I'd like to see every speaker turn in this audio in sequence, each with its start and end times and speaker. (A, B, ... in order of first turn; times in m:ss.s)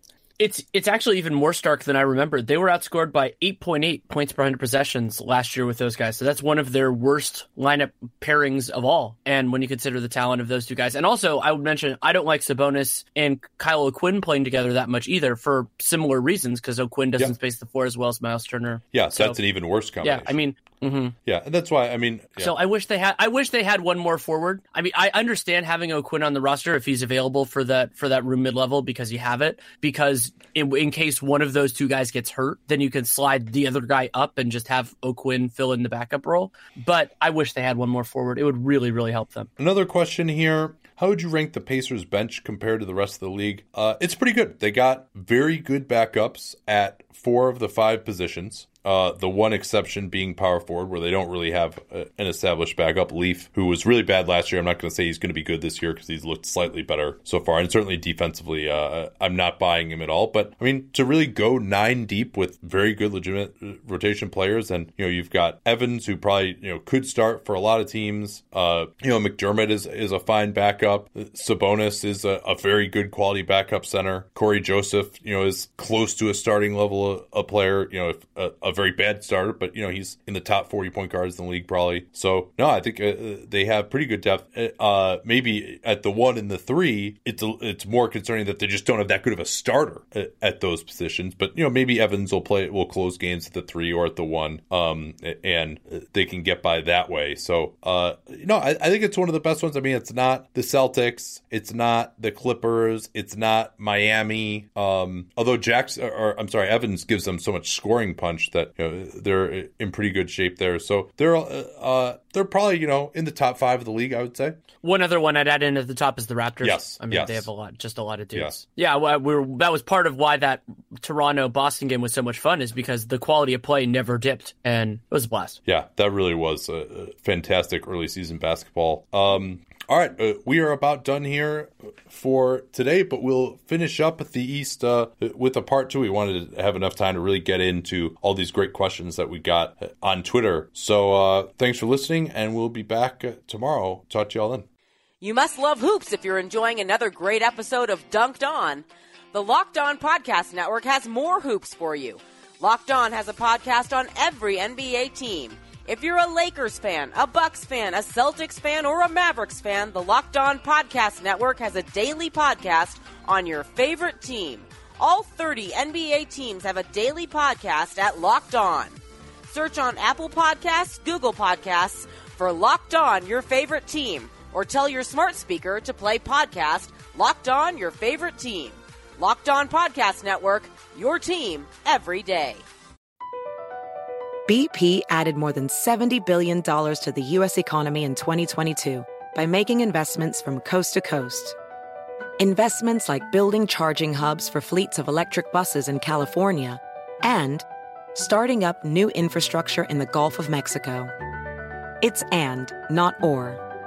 0:00.4-0:19.4 A
0:18.9-0:20.3 B
0:20.0-0:21.2 A
0:21.2-0:22.5 B
0:22.4-0:39.5 A
0:39.6-1:54.6 B
1:54.8-2:05.6 A
1:56.6-1:57.5 B
2:05.7-2:24.6 B
2:25.2-2:49.0 C
2:49.5-3:02.6 C
3:04.5-3:11.6 D
3:12.4-3:21.1 D
3:22.0-3:23.6 D